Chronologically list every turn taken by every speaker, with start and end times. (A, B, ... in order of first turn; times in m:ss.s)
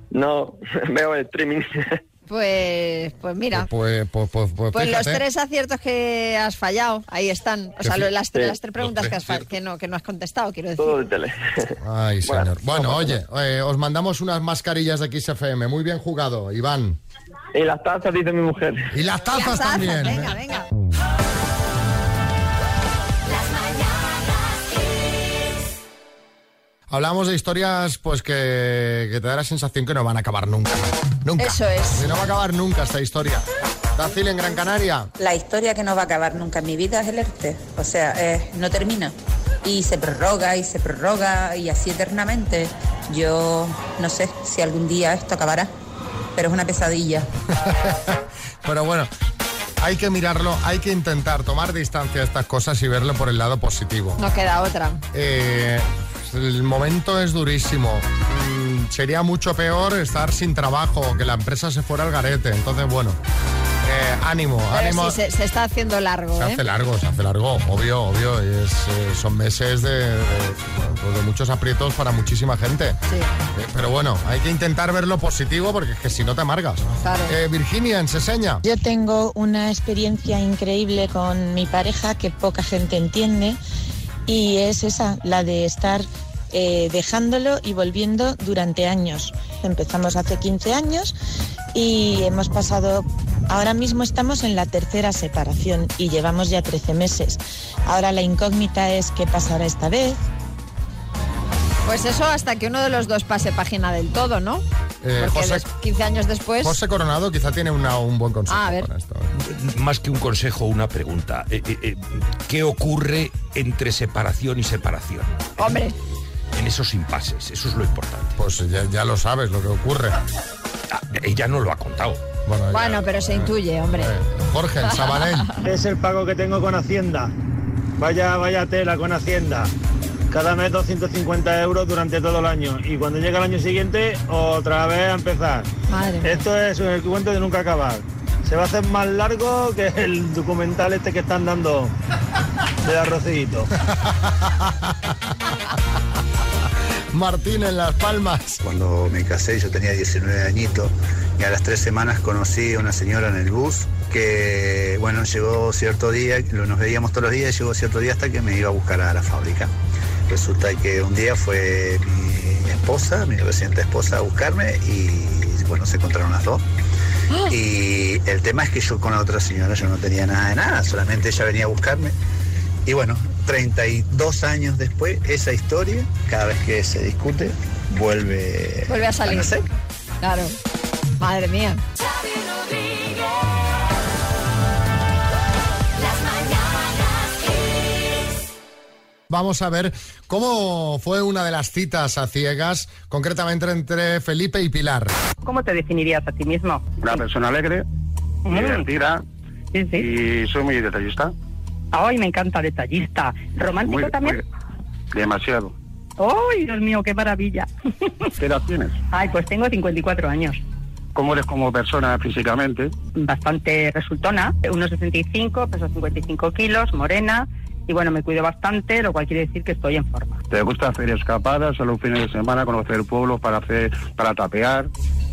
0:00.1-0:02.0 A
0:02.3-0:03.7 B
0:03.5-0:05.2 C
0:04.7-0:11.0 B
0:08.8-0:09.4 C
0:10.8-0:13.2 A
0:11.8-0:17.0 C
0:17.5-0:18.9 A
0:18.9-0:20.3 C
0:19.3-0:20.7 B
0:26.9-0:35.1 C
0:31.4-0:32.0 B
0:35.2-0:45.7 D
0:46.4-0:47.3 D
0:47.6-0:49.1 C
0:49.8-0:54.2 C
0:54.2-0:55.0 B
0:55.1-1:03.2 C
1:03.8-1:05.2 C
1:04.7-1:06.6 B
1:06.4-1:13.0 C
1:13.5-1:18.6 C
1:17.0-1:17.3 B
1:18.6-1:23.6 E
1:24.3-1:31.2 E
1:31.7-1:40.2 E
1:41.9-1:44.6 B
1:45.0-1:45.7 C
1:45.2-1:46.8 B
1:46.6-1:49.3 C
1:48.5-1:48.9 B
1:49.4-1:55.7 F
1:55.6-1:56.0 B
1:56.5-1:58.4 F
1:58.4-2:00.2 C
2:00.9-2:02.2 F
2:02.4-2:05.5 C
2:02.7-2:04.1 B
2:04.9-2:05.6 B
2:05.6-2:07.3 G
2:08.0-2:09.7 G
2:10.3-2:15.7 G
2:15.9-2:16.4 B
2:16.2-2:21.9 G
2:22.8-2:23.7 G
2:23.8-2:25.1 C
2:27.1-2:28.6 C
2:28.6-2:39.7 H
2:40.3-2:46.6 H
2:47.5-2:52.2 H
2:52.9-2:59.6 H
2:58.9-2:59.6 B
3:00.2-3:00.6 B
3:01.2-3:01.8 B
3:09.3-3:15.1 C
3:15.4-3:17.0 I
3:17.0-3:17.9 J
3:18.5-3:18.9 I
3:18.5-3:19.2 J
3:19.7-3:20.1 I
3:20.0-3:21.3 J
3:21.9-3:24.4 I
3:23.8-3:24.4 J
3:25.1-3:25.7 J
3:26.2-3:27.7 I
3:28.4-3:29.0 J
3:29.1-3:30.6 I
3:31.2-3:33.0 J
3:33.2-3:40.4 I
3:40.5-3:44.9 J